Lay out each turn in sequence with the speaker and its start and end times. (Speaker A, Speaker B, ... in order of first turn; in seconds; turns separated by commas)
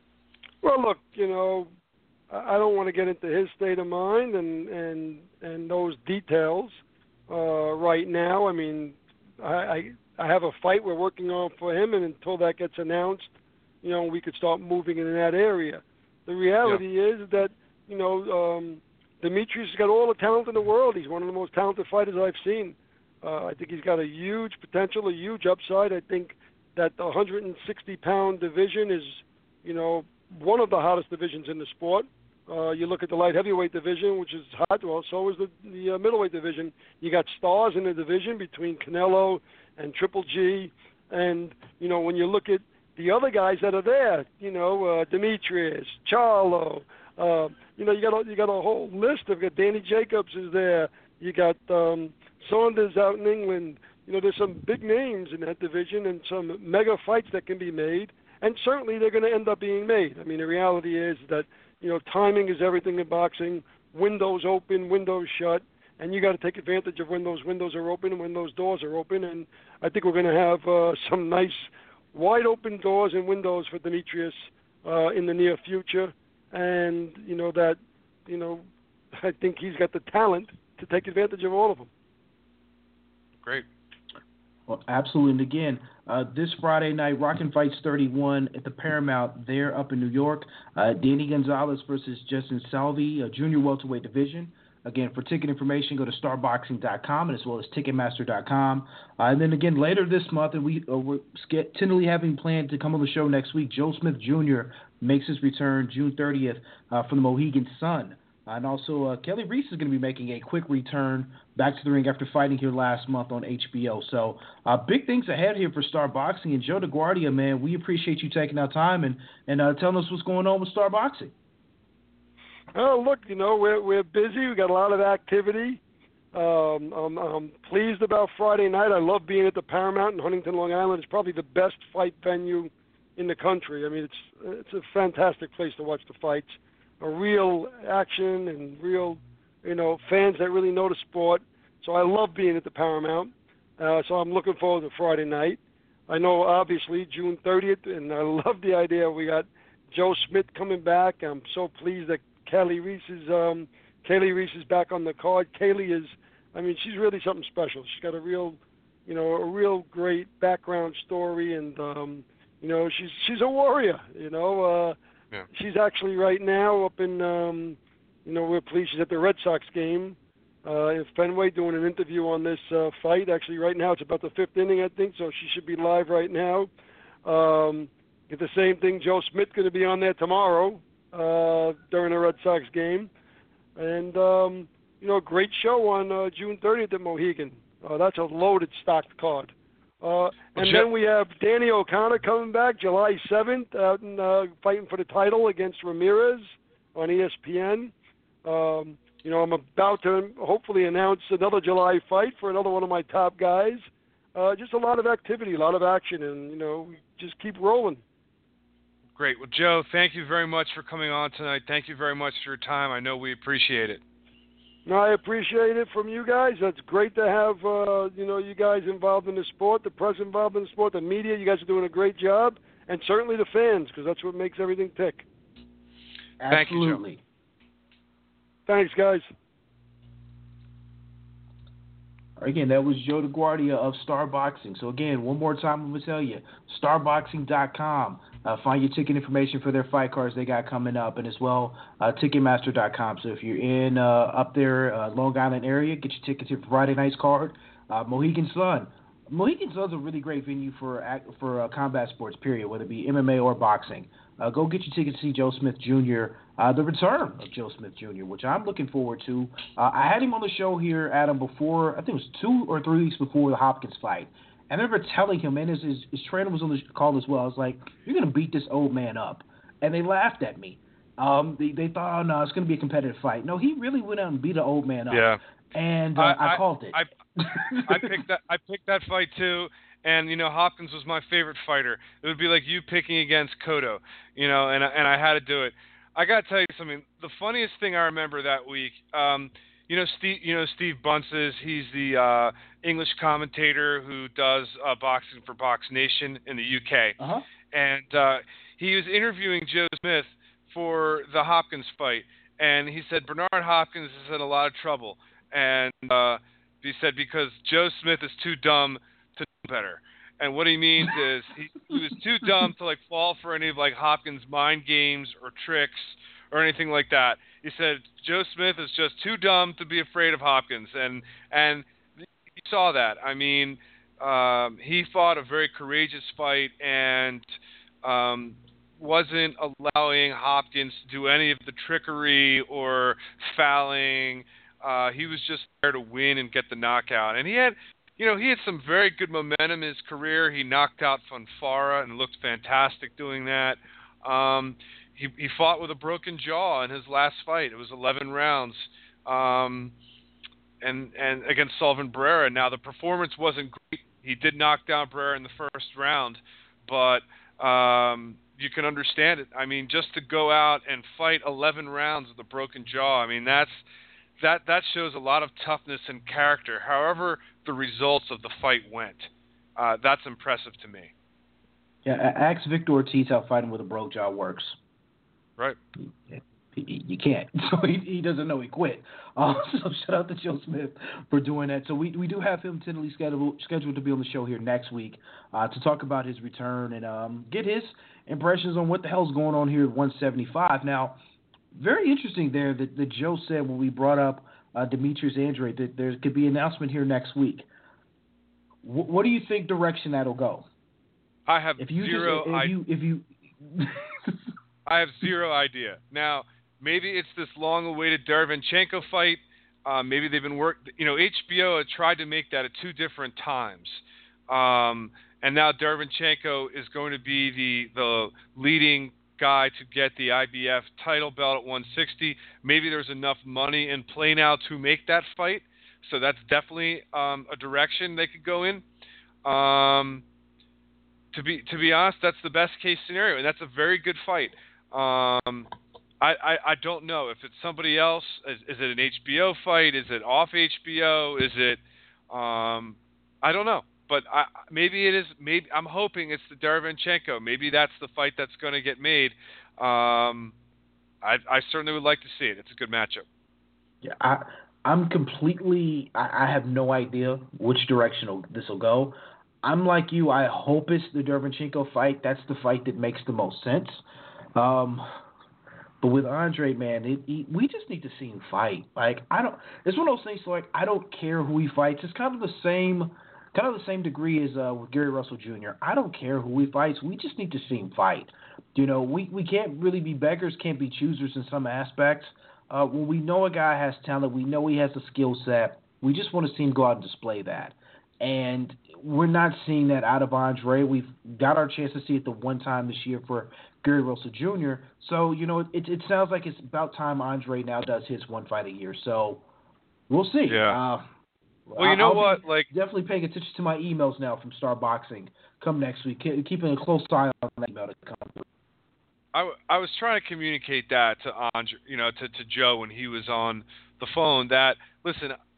Speaker A: 0.6-1.7, Speaker A: 2.3-6.8, Speaker A: 7.3-81.9, Speaker B: 84.7-121.3, Speaker A: 122.7-125.8, Speaker A: 126.3-164.9, Speaker A: 165.5-176.7, Speaker A: 177.2-183.1, Speaker A: 183.8-197.9, Speaker C: 190.6-190.9, Speaker A: 198.4-208.0, Speaker C: 209.2-214.0, Speaker A: 214.9-225.2, Speaker B: 226.4-227.2, Speaker C: 226.5-227.0, Speaker A: 228.7-229.3, Speaker B: 232.4-278.1, Speaker C: 275.1-275.4, Speaker C: 276.1-277.1, Speaker C: 277.8-297.2, Speaker B: 297.2-297.4, Speaker C: 297.7-321.9, Speaker C: 322.6-327.5, Speaker C: 328.0-349.9, Speaker C: 350.8-363.8, Speaker C: 364.4-371.1, Speaker B: 372.1-374.8, Speaker B: 376.3-391.2, Speaker B: 391.7-397.7, Speaker B: 398.8-400.7, Speaker C: 401.5-402.7, Speaker B: 401.8-404.4, Speaker C: 404.9-428.8, Speaker C: 429.4-430.2, Speaker C: 431.3-435.7, Speaker C: 436.2-450.6, Speaker C: 451.2-453.3, Speaker B: 454.0-464.0, Speaker B: 464.6-465.1, Speaker B: 466.0-499.4, Speaker B: 500.1-501.1, Speaker C: 500.5-500.8, Speaker B: 501.7-508.5, Speaker C: 501.8-502.7, Speaker C: 509.3-515.4